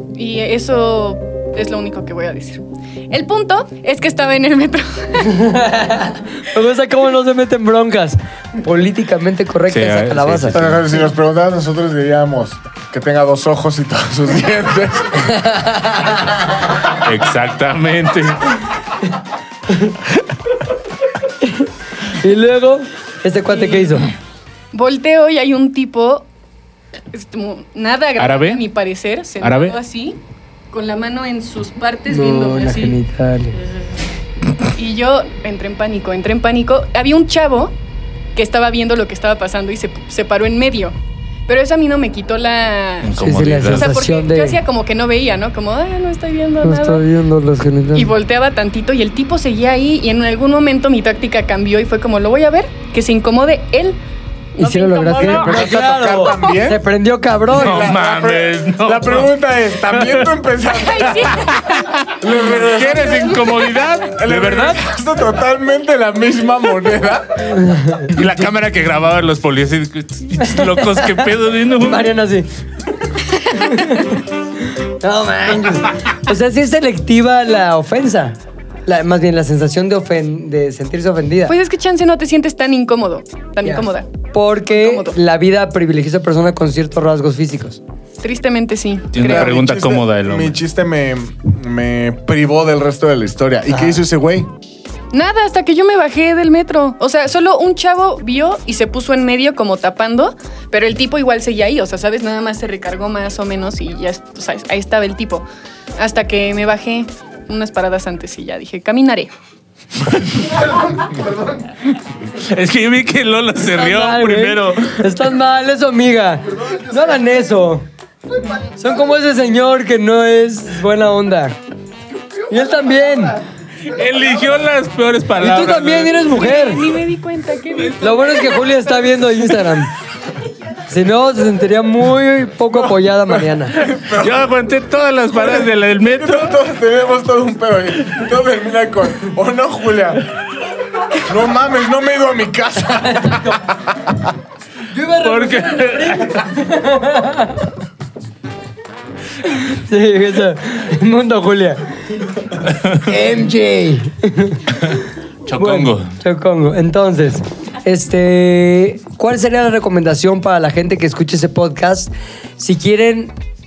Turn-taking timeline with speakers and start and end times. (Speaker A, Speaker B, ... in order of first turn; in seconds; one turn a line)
Speaker A: 0.1-5.5
Speaker B: 5.2-10.6
Speaker C: 9.7-10.8
Speaker D: 10.5-15.3
Speaker B: 15.3-16.4
Speaker C: 17.0-18.5
Speaker B: 21.4-24.1
Speaker A: 24.7-26.3
Speaker A: 27.1-30.2
Speaker C: 28.2-28.6
Speaker C: 29.4-29.8
Speaker A: 30.7-33.0
Speaker B: 32.1-33.6
Speaker A: 34.8-37.8
Speaker A: 38.4-41.0
Speaker A: 41.5-43.1
Speaker C: 43.0-44.0
Speaker B: 43.1-44.6
Speaker A: 43.7-47.0
Speaker B: 46.6-48.1
Speaker A: 47.9-54.0
Speaker A: 54.6-56.5
Speaker B: 54.6-57.9
Speaker D: 55.2-56.8
Speaker C: 57.5-59.3
Speaker D: 57.5-61.5
Speaker C: 59.9-60.3
Speaker A: 60.7-61.9
Speaker C: 61.7-64.8
Speaker D: 62.2-63.5
Speaker D: 64.1-67.5
Speaker B: 67.5-68.1
Speaker C: 68.1-72.1
Speaker B: 70.4-71.3
Speaker B: 71.8-72.5
Speaker B: 73.5-81.5
Speaker A: 81.5-84.1
Speaker B: 83.6-87.8
Speaker A: 84.7-85.2
Speaker A: 88.2-89.5
Speaker C: 89.1-90.6
Speaker D: 89.2-94.5
Speaker B: 93.7-94.0
Speaker A: 95.1-105.5
Speaker A: 106.0-109.3
Speaker C: 110.1-110.4
Speaker C: 112.3-115.1
Speaker B: 113.7-117.8
Speaker B: 118.8-121.6
Speaker B: 122.5-123.4
Speaker C: 123.8-126.3
Speaker B: 125.4-126.8
Speaker A: 126.3-128.8
Speaker B: 128.0-129.9
Speaker B: 130.9-133.8
Speaker D: 133.3-134.5
Speaker C: 133.9-136.6
Speaker D: 135.3-140.4
Speaker D: 141.2-144.3
Speaker B: 144.9-147.7
Speaker C: 145.2-146.4
Speaker B: 149.5-152.2
Speaker C: 152.7-153.0
Speaker B: 152.9-155.0
Speaker C: 154.9-156.1
Speaker B: 155.5-163.3